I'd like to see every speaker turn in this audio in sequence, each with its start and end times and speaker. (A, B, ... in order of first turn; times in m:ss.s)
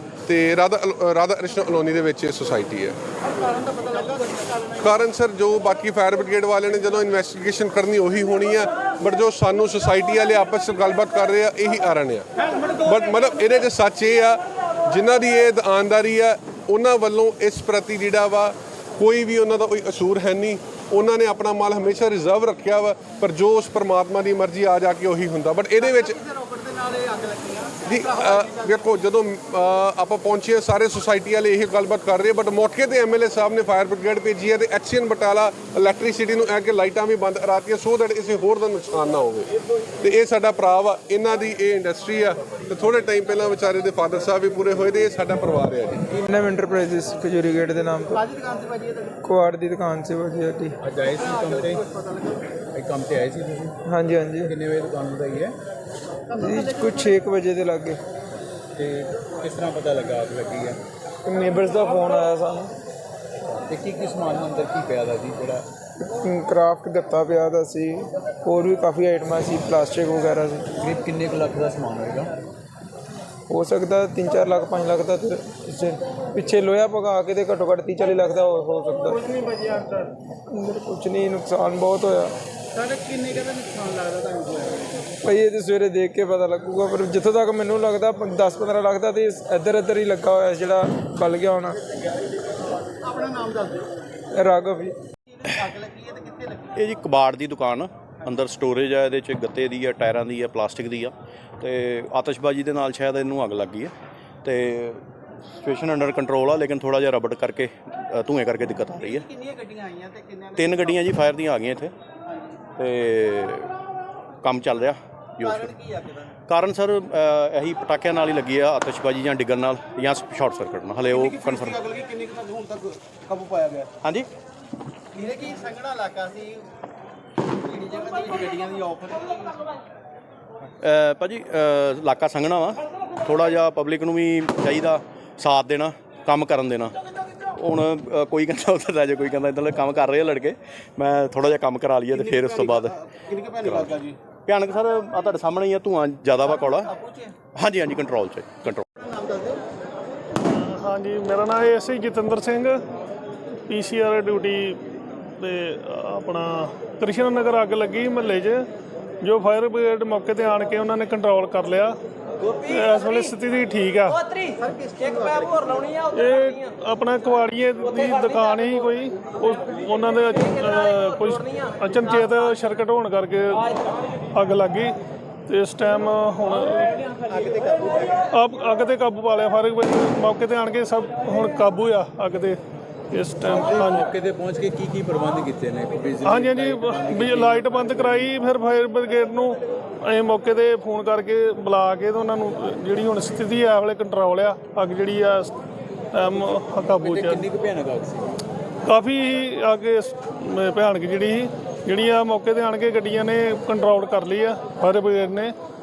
0:00.2-0:03.0 A
0:03.4-0:04.5 B
0:04.8-0:12.3 A
0:12.8-0:26.2 A
0:26.2-0:28.0 B
0:27.9-0:39.5 A
0:40.0-0:46.1 A
0:46.1-0:48.3 C
0:48.3-0:49.2 B
0:49.2-0:50.8 C
0:50.8-0:51.9 D
0:51.9-0:52.5 B
0:52.7-0:53.8 D
0:53.9-0:54.5 C
0:54.4-0:55.6 D
0:56.3-0:58.0 C
0:58.8-1:00.8 D
1:01.3-1:02.7 C
1:03.7-1:05.6 D
1:06.0-1:10.7 C
1:10.8-1:12.3 D
1:13.5-1:19.4 C
1:20.5-1:22.3 C
1:22.8-1:25.0 B
1:25.2-1:31.8 C
1:33.0-1:33.9 B
1:34.4-1:35.0 C
1:35.4-1:36.8 B
1:36.8-1:43.9 E
1:44.4-1:45.0 E
1:45.6-1:49.3 E
1:49.1-1:50.8 B
1:50.6-1:51.9 E
1:52.3-1:52.6 B
1:52.8-1:53.7 E
1:54.4-1:55.7 E
1:55.4-1:56.3 B
1:56.5-2:01.8 E
2:01.2-2:03.9 B
2:04.0-2:04.3 E
2:05.1-2:06.6 B
2:07.5-2:09.7 B
2:10.8-2:17.0 E
2:17.6-2:26.9 E
2:22.2-2:24.2 B
2:26.9-2:27.3 B
2:27.6-2:28.8 E
2:29.0-2:29.6 B
2:30.5-2:32.8 F
2:33.7-2:34.8 F
2:35.4-2:38.6 F
2:39.2-2:42.0 F
2:42.5-2:44.4 F
2:44.6-2:45.9 B
2:46.0-2:53.7 F
2:54.4-2:55.0 F
2:55.5-2:57.0 F
2:57.3-2:58.2 B
2:58.3-3:02.6 F
3:03.1-3:04.1 F
3:03.5-3:08.3 D
3:06.2-3:15.5 F
3:16.1-3:17.5 F
3:16.8-3:18.3 D
3:18.9-3:25.5 F